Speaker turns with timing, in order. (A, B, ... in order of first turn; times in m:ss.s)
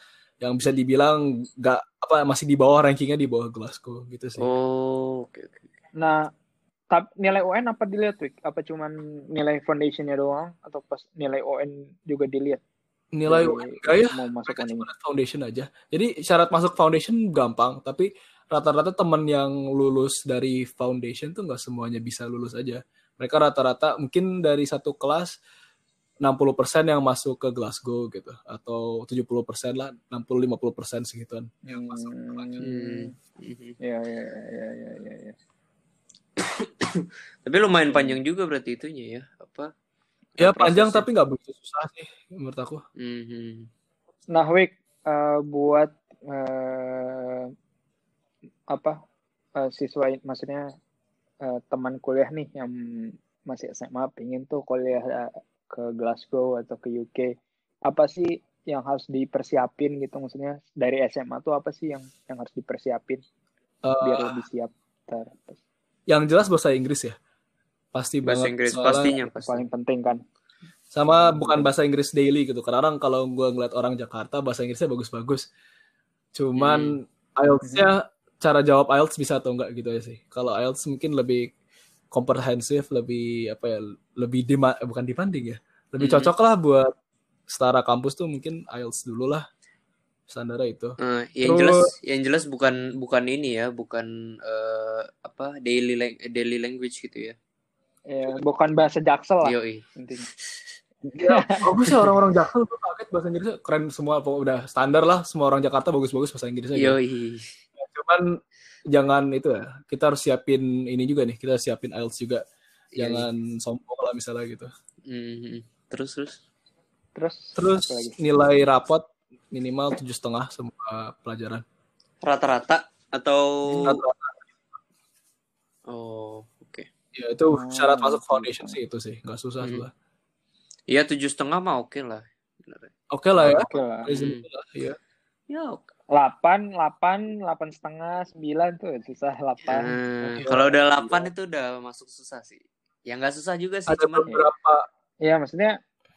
0:00.4-0:04.5 A
0:04.4-0:05.6 B
0:06.0-0:06.3 C
0:06.9-0:12.6 C
0:13.1-0:25.4 A
0:13.3-0:14.9 C
0:26.2-0:32.6 A
0:31.6-0:33.1 C
0:32.6-0:33.8 B
0:33.8-0:35.4 C
0:36.4-0:39.7 B
0:37.9-0:38.2 C
0:40.4-0:41.0 B
0:40.4-0:42.8 A
0:43.0-0:43.7 B
0:44.3-0:47.5 C
0:49.6-0:50.7 C
0:51.4-0:57.3 C
0:57.9-1:03.2 C
1:03.8-1:04.4 A
1:04.0-1:05.6 C
1:06.1-1:07.2 A
1:07.9-1:09.1 A
1:08.2-1:09.6 B
1:09.4-1:10.2 C
1:10.9-1:15.4 A
1:11.1-1:11.7 C
1:16.3-1:21.5 A
1:16.6-1:17.0 B
1:17.6-1:17.9 C
1:22.1-1:26.9 A
1:26.0-1:26.3 B
1:27.5-1:29.4 A
1:30.3-1:31.9 A
1:31.0-1:37.4 B
1:38.1-1:40.3 C
1:39.4-1:39.8 B
1:41.0-1:47.0 A
1:41.3-1:41.6 C
1:46.8-1:47.6 B
1:47.8-1:48.3 A
1:48.9-1:52.4 A
1:52.9-1:53.3 B
1:53.0-1:54.7 A
1:55.1-1:56.4 B
1:57.2-1:58.1 C
1:57.6-2:01.6 A
2:02.2-2:04.0 B
2:03.7-2:04.4 A
2:05.9-2:06.9 B
2:07.1-2:09.9 A
2:07.5-2:08.8 C
2:10.9-2:14.4 B
2:13.1-2:15.0 A
2:13.4-2:14.1 C
2:15.5-2:15.8 B
2:16.1-2:21.2 C
2:19.6-2:24.3 B
2:20.4-2:21.1 A
2:23.9-2:24.8 A
2:25.2-2:25.7 C